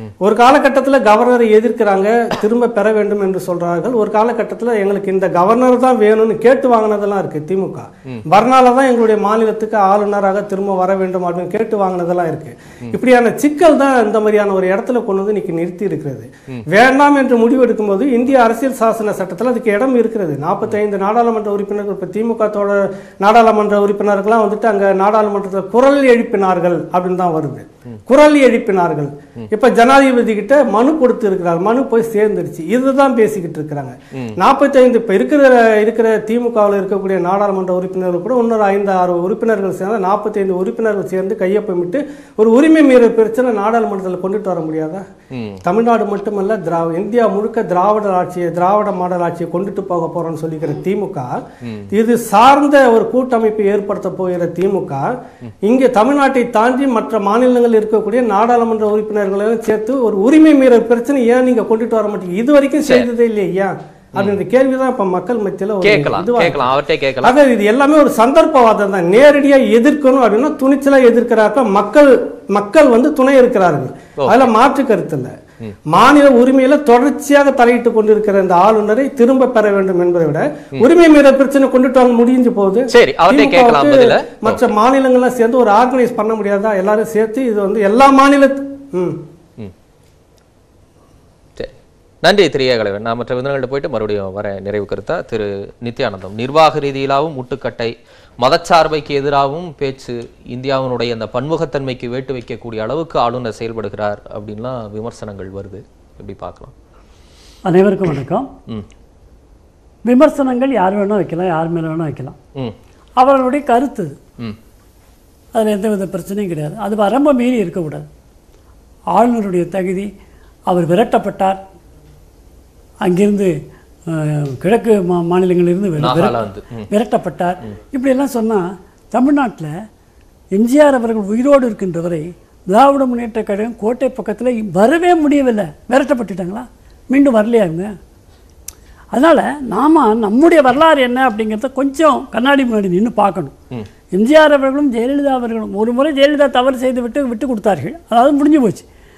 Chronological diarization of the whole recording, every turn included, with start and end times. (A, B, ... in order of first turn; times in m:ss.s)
0:00.2-0:45.0 A
0:45.3-0:45.6 B
0:45.6-0:51.4 A
0:51.6-0:51.9 B
0:51.9-0:55.1 A
0:55.6-1:15.3 A
1:04.2-1:04.4 B
1:05.8-1:07.3 B
1:14.2-1:14.5 B
1:15.9-1:29.2 A
1:22.9-1:24.6 B
1:31.6-1:46.7 B
1:47.6-1:48.5 C
1:50.0-1:52.4 C
1:53.2-1:54.1 C
1:55.5-1:58.0 C
1:59.2-2:00.1 C
2:00.7-2:01.6 C
2:03.0-2:03.5 C
2:04.1-2:06.4 C
2:06.0-2:06.9 B
2:06.9-2:09.7 C
2:10.5-2:17.9 C
2:19.1-2:23.5 C
2:24.1-2:28.8 C